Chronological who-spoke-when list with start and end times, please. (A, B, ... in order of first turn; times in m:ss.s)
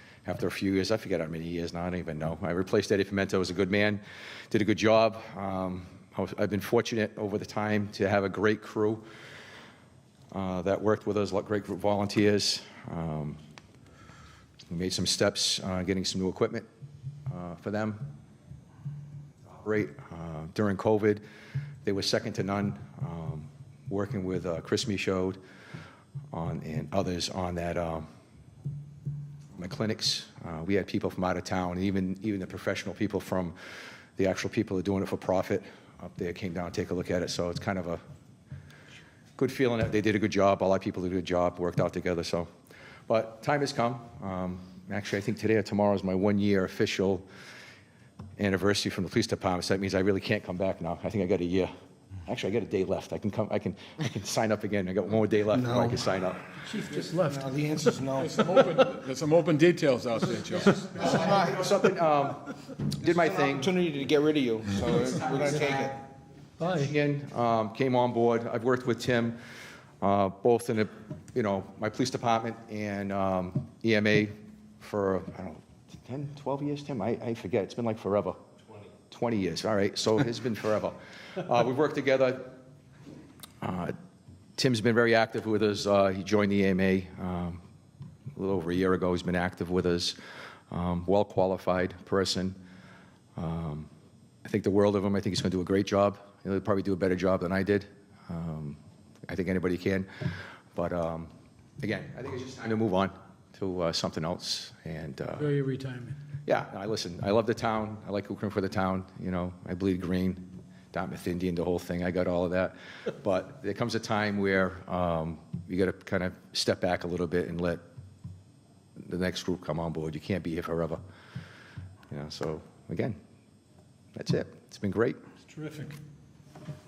0:00.2-0:09.0 A
0:10.3-0:13.4 A
0:14.7-0:16.6 A
0:17.3-0:18.1 A
0:19.5-0:21.2 A
0:21.8-0:25.4 A
0:26.3-0:28.0 A
0:29.6-0:33.5 A
0:34.2-0:38.0 A
0:39.4-0:42.5 A
0:43.1-0:47.3 A
0:48.4-0:51.7 A
0:52.2-0:56.4 A
0:55.5-0:56.0 B
0:56.5-0:57.9 C
0:56.9-0:58.5 B
0:58.2-1:00.9 D
1:00.7-1:01.7 B
1:00.9-1:02.5 A
1:03.0-1:03.7 A
1:03.0-1:06.0 B
1:05.4-1:05.8 A
1:06.6-1:06.9 C
1:06.7-1:09.4 A
1:10.0-1:18.4 A
1:19.1-1:22.6 A
1:23.6-1:23.9 A
1:24.6-1:27.6 A
1:28.4-1:30.2 A
1:30.7-1:32.6 A
1:33.4-1:33.9 A
1:34.4-1:45.5 A
1:45.4-1:46.2 C
1:46.4-1:57.8 A
1:59.0-2:01.0 A
2:02.1-2:03.2 A
2:04.2-2:05.2 A
2:05.5-2:06.0 C